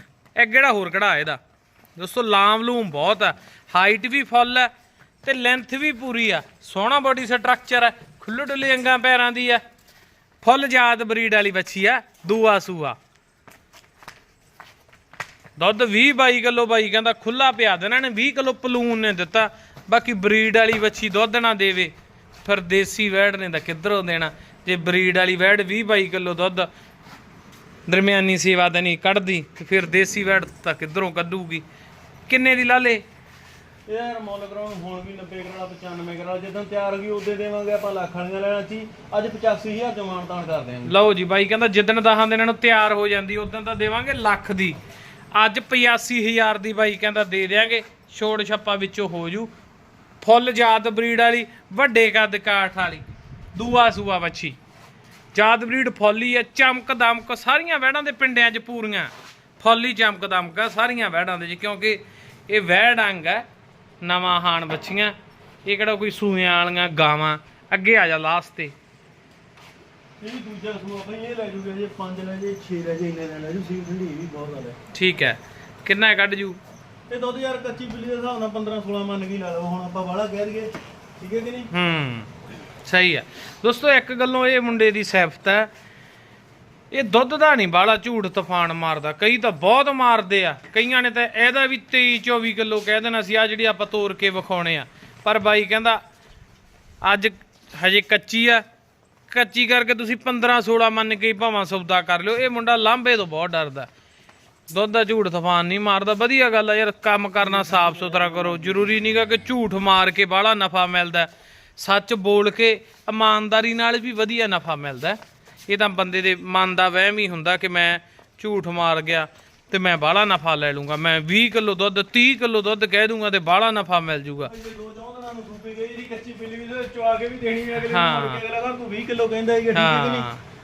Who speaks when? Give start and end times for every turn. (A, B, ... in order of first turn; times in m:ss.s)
0:00.4-0:01.4 A
0:02.0-0:04.7 A
0:05.2-0:09.6 A
0:10.4-0:13.0 A
0:15.6-0:21.9 A
0:22.4-0:26.7 A
0:27.9-0:31.6 A
0:32.3-0:33.0 A
0:33.9-0:40.9 B
0:40.9-0:44.8 A
0:45.3-0:49.5 A
0:50.2-0:54.6 A
0:55.3-1:03.4 A
1:04.0-1:05.1 A
1:05.6-1:08.7 A
1:10.2-1:14.8 B
1:14.9-1:16.6 A
1:17.1-1:21.7 B
1:21.7-1:22.3 A
1:22.8-1:25.7 A
1:26.9-1:36.0 A
1:37.0-1:38.6 A
1:39.3-1:43.9 A
1:44.7-2:04.5 A
1:47.4-1:48.8 B
2:04.5-2:10.3 B
2:07.8-2:08.4 A
2:09.8-2:10.4 A